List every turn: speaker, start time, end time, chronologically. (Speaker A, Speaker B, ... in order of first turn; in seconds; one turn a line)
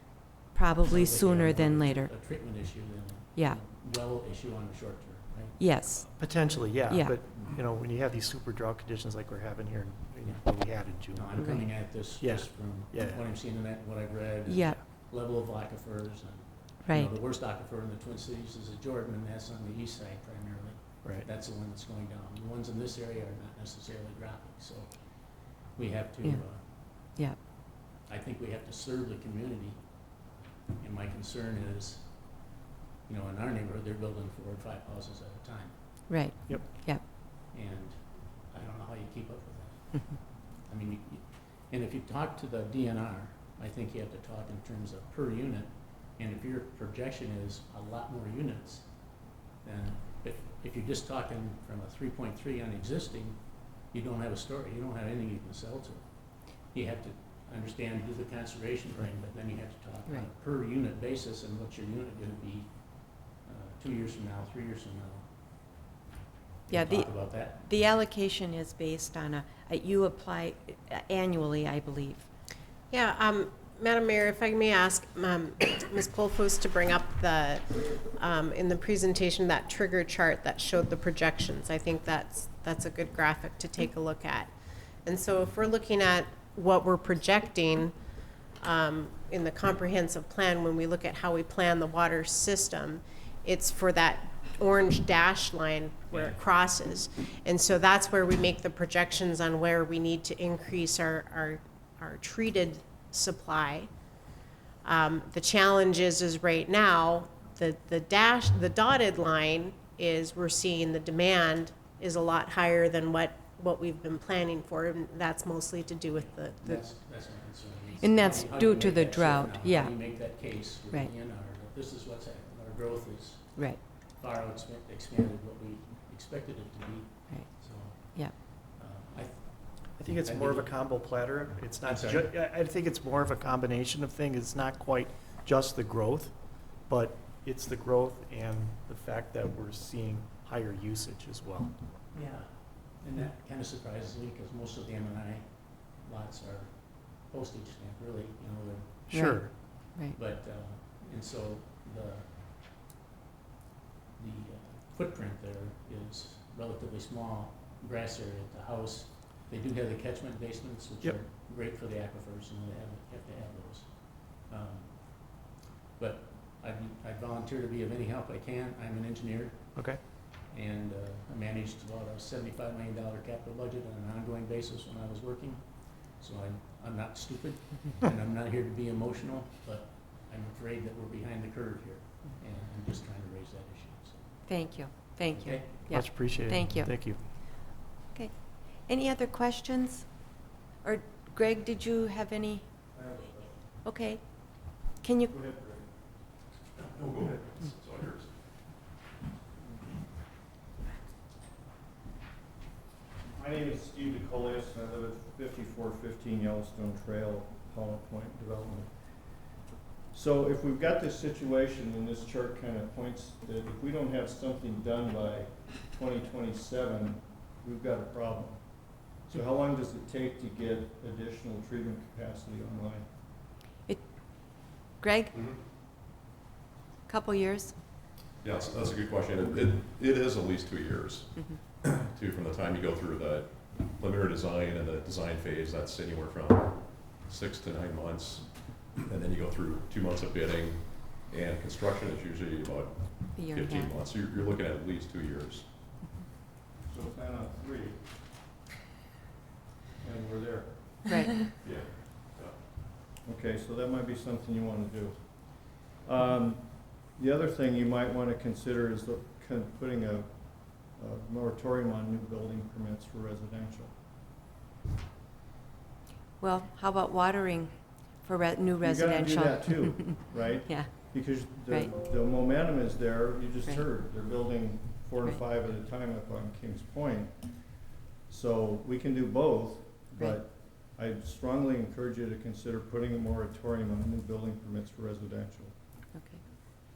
Speaker A: 0.2-2.1
Speaker B: 0.9-5.6
Speaker A: 5.6-6.1
Speaker C: 5.9-13.3
Speaker A: 6.9-7.1
Speaker B: 10.2-26.7
Speaker A: 11.4-11.8
Speaker A: 14.4-14.8
Speaker A: 16.8-17.1
Speaker A: 27.0-27.4
Speaker B: 28.1-32.5
Speaker B: 33.0-35.7
Speaker A: 36.1-37.0
Speaker B: 37.5-48.9
Speaker A: 39.9-40.2
Speaker B: 49.6-65.3
Speaker B: 66.7-67.6
Speaker A: 66.7-72.3
Speaker D: 72.9-84.5
Speaker D: 85.0-87.9
Speaker D: 88.6-103.9
Speaker B: 96.1-96.4
Speaker D: 104.8-116.8
Speaker B: 116.2-130.7
Speaker A: 118.0-121.1
Speaker A: 127.3-128.3
Speaker C: 130.0-141.7
Speaker B: 131.8-132.3
Speaker B: 142.1-149.1
Speaker C: 149.1-149.5
Speaker A: 149.1-150.2
Speaker B: 149.7-152.3
Speaker B: 154.2-184.3
Speaker C: 169.8-170.0
Speaker A: 184.5-186.9
Speaker B: 185.3-186.0
Speaker C: 185.7-187.2
Speaker A: 188.1-190.1
Speaker A: 190.8-192.7
Speaker E: 192.9-193.6
Speaker A: 193.8-195.3
Speaker E: 195.3-195.9
Speaker F: 196.7-198.3
Speaker E: 203.3-209.6
Speaker E: 210.1-223.1
Speaker A: 223.9-225.3
Speaker F: 225.3-225.6
Speaker A: 227.1-227.7
Speaker F: 228.4-245.7
Speaker A: 243.3-243.9
Speaker E: 246.8-248.2
Speaker E: 250.0-251.0
Speaker A: 251.1-251.4
Speaker F: 251.6-252.6
Speaker E: 253.2-264.0
Speaker A: 266.4-271.9
Speaker E: 268.8-285.7
Speaker A: 286.1-286.4